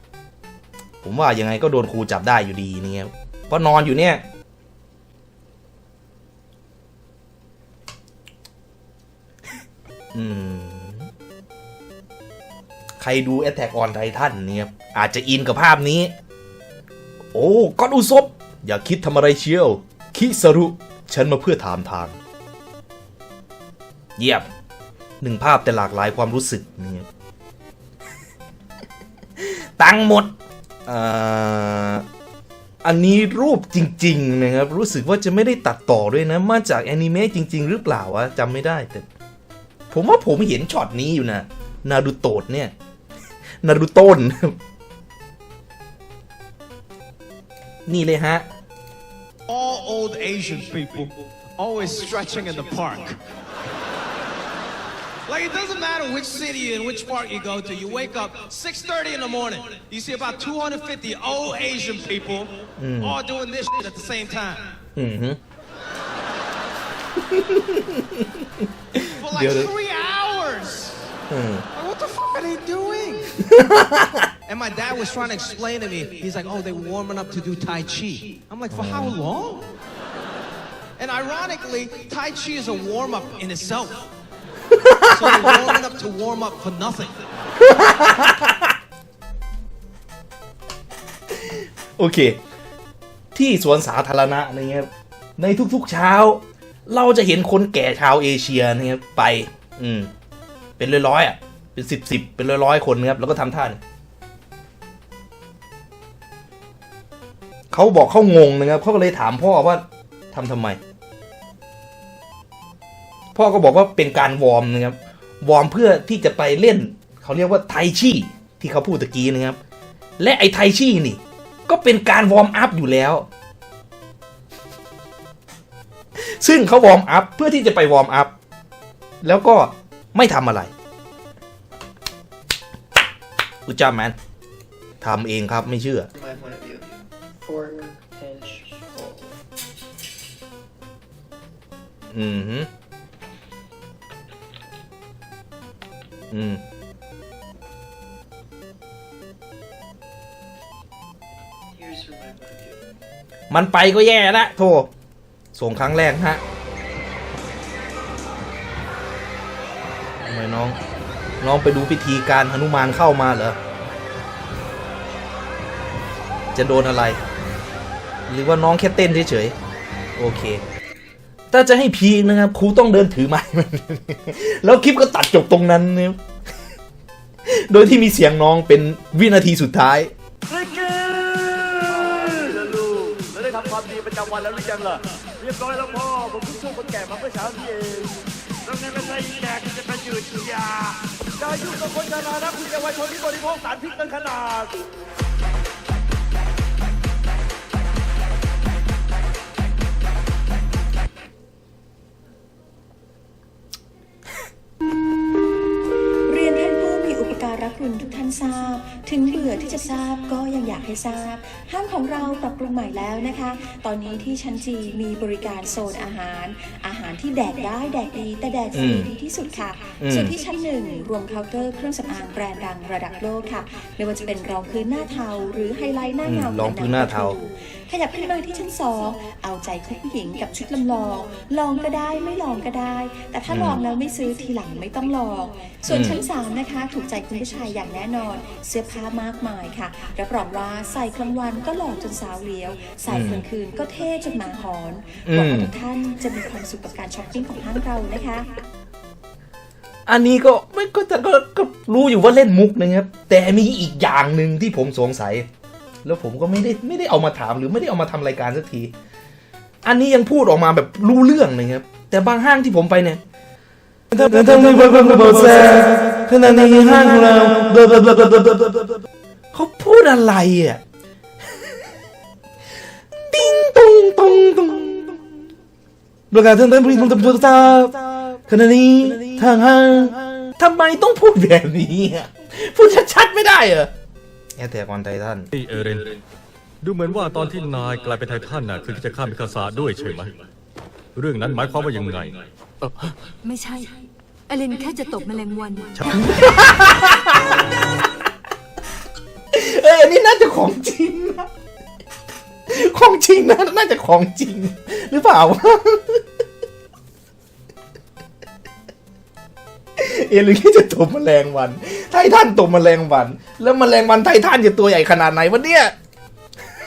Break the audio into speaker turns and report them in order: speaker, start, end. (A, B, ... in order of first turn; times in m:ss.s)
0:01.0-0:04.2 A
0:10.1-0:11.1 A
0:13.0-0:16.1 A
0:17.3-0:22.2 A
0:24.2-0:24.5 A
0:25.2-0:27.1 A
0:29.4-0:30.3 A
0:30.8-0:32.0 A
0:32.8-0:39.1 A
0:39.9-0:42.7 A
0:43.6-0:44.6 A
0:47.8-0:48.5 A
0:49.5-0:53.2 B
0:55.3-1:04.7 B
1:02.8-1:03.2 A
1:05.0-1:05.4 A
1:07.2-1:09.7 A
1:09.0-1:11.0 B
1:11.3-1:11.6 A
1:11.7-1:13.3 B
1:13.4-1:14.3 A
1:14.5-1:19.7 B
1:18.7-1:19.1 A
1:21.0-1:24.1 B
1:24.7-1:25.6 A
1:25.1-1:27.1 B
1:27.6-1:28.7 A
1:31.3-1:32.4 A
1:33.3-1:40.1 A
1:40.8-1:43.8 A
1:47.7-1:50.8 A
1:53.3-1:59.6 A
2:00.2-2:03.3 A
2:06.2-2:08.3 A
2:09.2-2:10.7 A
2:13.6-2:14.2 A
2:15.0-2:16.1 A
2:16.1-2:19.3 C
2:22.1-2:22.7 A
2:26.3-2:26.6 A
2:31.7-2:32.8 C
2:33.5-2:34.9 A
2:35.5-2:36.4 A
2:40.2-2:40.8 A
2:41.4-2:43.6 A
2:46.5-2:47.2 A
2:48.3-2:49.5 A
2:50.2-2:50.6 A
2:51.5-2:56.2 A
2:57.4-3:00.1 A
3:05.6-3:06.0 D
3:06.6-3:07.6 D
3:08.8-3:10.6 D
3:11.5-3:14.5 D
3:26.3-4:08.6 E
3:38.7-3:39.1 A
3:40.0-3:40.3 A
3:46.2-3:47.4 A
3:53.5-3:53.8 A
3:55.9-3:56.2 A
4:03.1-4:03.4 A
4:05.2-4:05.7 A
4:10.1-4:15.5 A
4:16.0-4:18.9 A
4:19.8-4:23.2 A
4:24.1-4:30.8 A
4:33.3-4:35.4 A
4:36.3-4:43.9 A
4:44.6-4:45.5 A
4:45.5-4:46.2 F
4:46.8-4:50.4 F
4:51.1-4:53.1 F
4:53.4-4:56.8 G
4:56.2-4:57.6 A
4:59.5-5:01.5 A
5:02.7-5:06.2 A
5:10.0-5:15.9 A